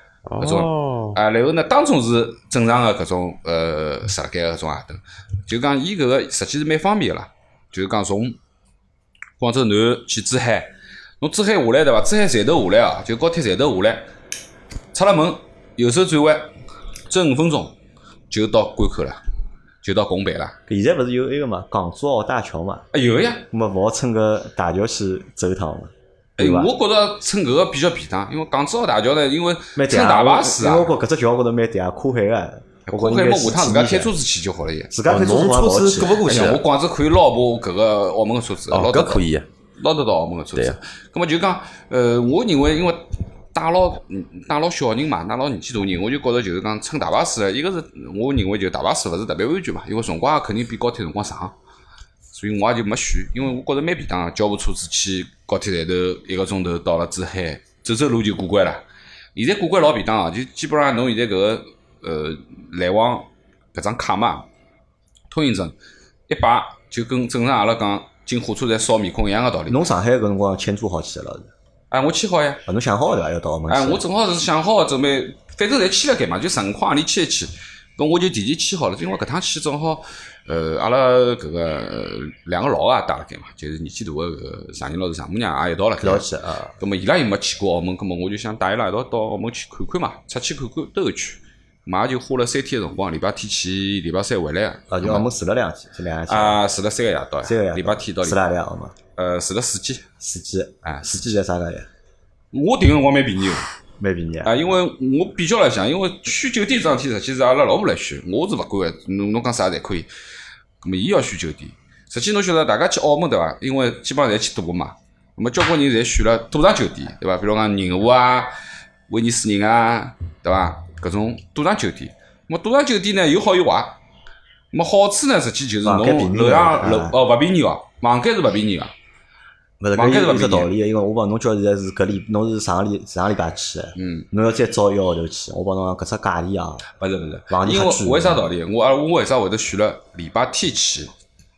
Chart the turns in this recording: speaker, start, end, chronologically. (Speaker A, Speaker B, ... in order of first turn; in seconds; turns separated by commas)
Speaker A: 0.3-0.7, Speaker B: 0.4-8.4, Speaker B: 9.4-14.1, Speaker B: 14.9-16.5, Speaker B: 17.1-17.8, Speaker B: 18.3-19.2, Speaker B: 19.8-20.6, Speaker C: 20.7-22.9, Speaker B: 22.9-23.5, Speaker C: 23.5-26.7, Speaker B: 26.4-30.9, Speaker C: 29.8-34.1, Speaker B: 32.9-34.9, Speaker C: 34.9-36.1, Speaker A: 35.1-36.6, Speaker B: 36.0-39.2, Speaker A: 38.7-39.5, Speaker B: 39.8-51.5, Speaker B: 52.3-58.8, Speaker B: 59.4-64.5, Speaker B: 65.3-65.8, Speaker B: 66.3-69.8, Speaker C: 69.7-71.5, Speaker B: 71.9-72.6, Speaker C: 72.7-74.0, Speaker B: 73.7-86.3, Speaker C: 86.0-86.7, Speaker B: 86.8-95.3, Speaker C: 94.9-96.6, Speaker B: 96.3-98.4, Speaker C: 97.5-99.0, Speaker B: 99.2-100.0, Speaker C: 100.2-101.9, Speaker B: 102.5-103.7, Speaker C: 104.0-104.5, Speaker B: 104.5-110.1, Speaker B: 110.8-118.6, Speaker B: 119.1-124.0, Speaker B: 124.7-128.9, Speaker C: 125.8-127.2, Speaker C: 129.8-136.8, Speaker B: 130.0-130.7, Speaker B: 134.0-134.3, Speaker B: 137.0-141.1, Speaker C: 137.5-138.4